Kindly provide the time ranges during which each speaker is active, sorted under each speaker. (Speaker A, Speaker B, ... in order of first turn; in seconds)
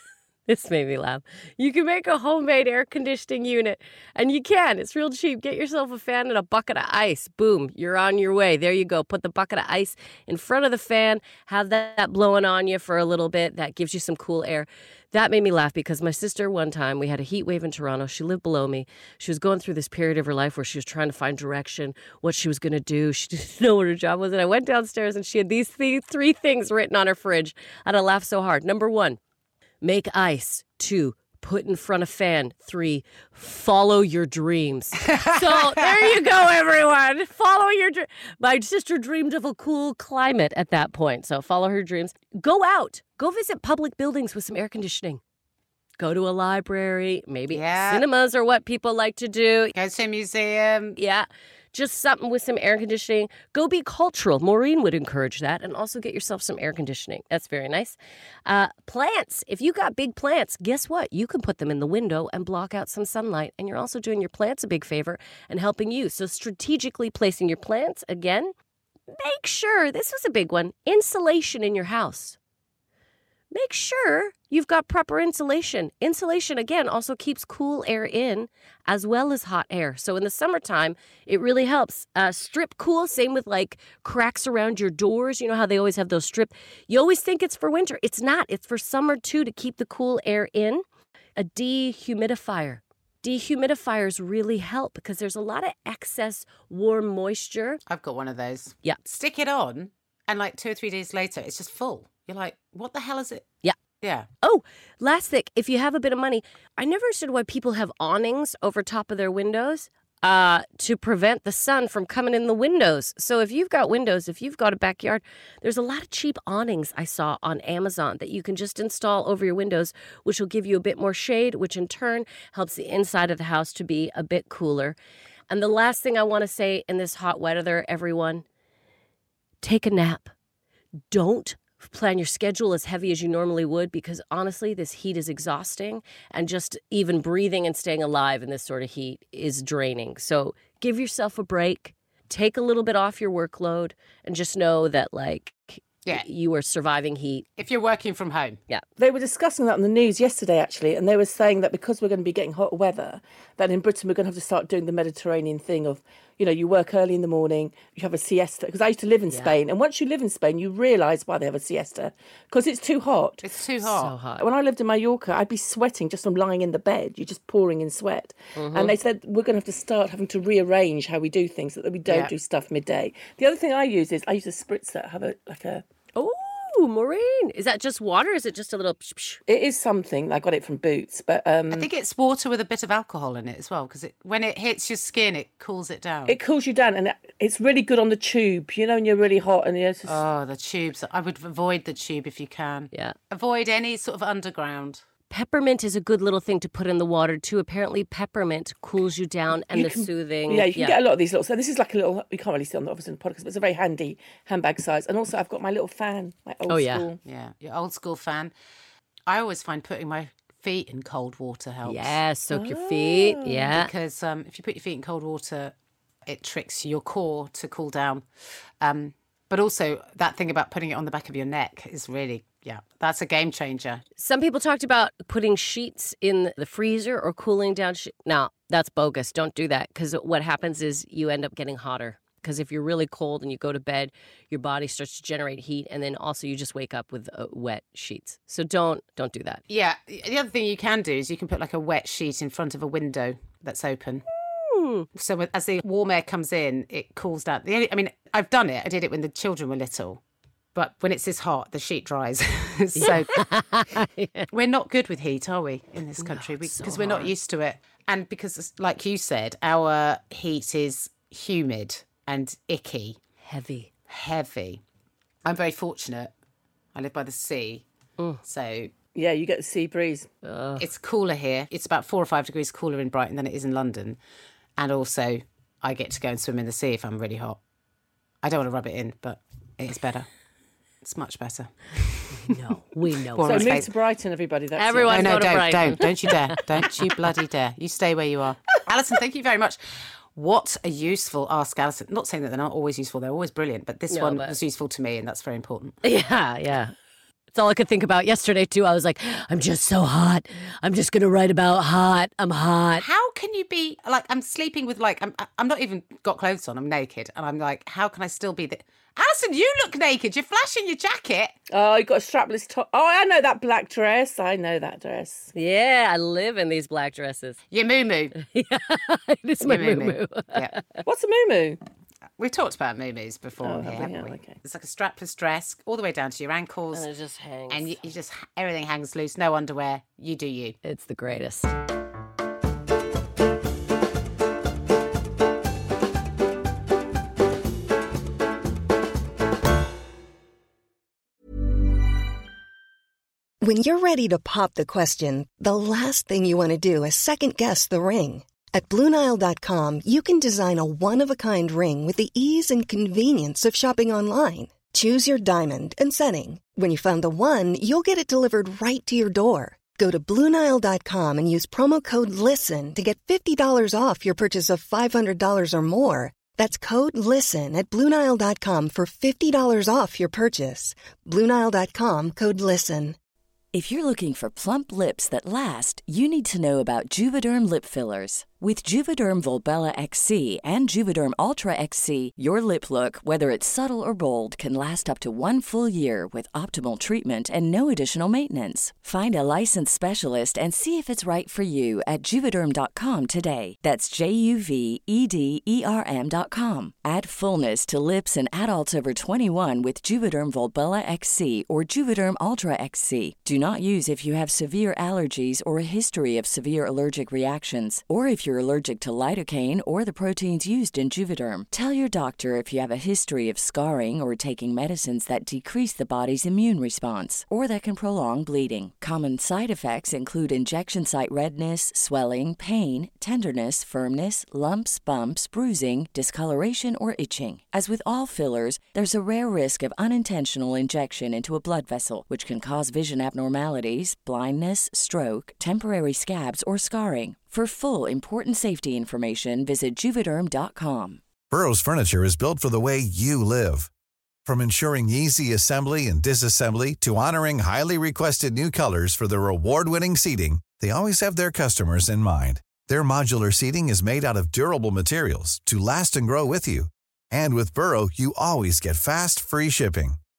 Speaker A: 0.5-29.2, 29.8-45.2, 46.0-49.7, 51.0-68.5, 69.1-72.4, 73.5-90.8, 91.4-97.8, 104.4-125.0, 125.5-128.4, 129.6-130.3, 131.1-147.5, 159.3-159.6, 163.8-164.4, 168.6-168.9, 176.2-179.4, 195.3-201.0, 206.7-207.1, 211.8-213.9, 224.2-239.6, 244.4-245.1, 253.0-254.5, 256.2-257.3, 263.4-263.9, 270.4-270.9, 282.4-283.7, 284.8-286.4, 294.1-294.6, 296.0-296.9, 297.5-303.1, 315.5-317.6, 318.4-321.0, 326.9-327.9, 330.8-331.7
Speaker B: 35.1-35.9, 47.5-48.0, 49.8-51.0, 97.9-103.5, 104.0-104.3, 147.6-148.6, 163.4-164.2, 172.1-172.3, 181.7-186.4, 190.1-195.0, 207.2-208.5, 209.3-212.2, 213.7-215.7, 216.3-218.2, 218.8-224.0, 239.7-244.2, 245.2-250.2, 250.8-253.4, 254.5-263.2, 264.1-264.8, 265.4-266.3, 266.9-267.8, 268.4-268.9, 270.8-274.2, 274.8-277.6, 278.4-280.3, 281.0-282.4, 283.3-283.9, 285.1-289.8, 290.3-296.0, 303.0-311.6, 317.7-318.4, 319.6-320.7, 322.4-327.1, 327.7-330.8
Speaker C: 149.0-163.4, 164.4-175.8, 179.5-181.9, 186.3-190.2, 199.7-207.2, 212.5-213.7, 269.1-270.3, 283.4-285.5, 311.7-315.5, 321.1-321.8, 323.6-324.6
Speaker D: 343.6-373.2
Speaker E: 373.7-441.2
Speaker F: 441.5-443.9, 444.5-460.2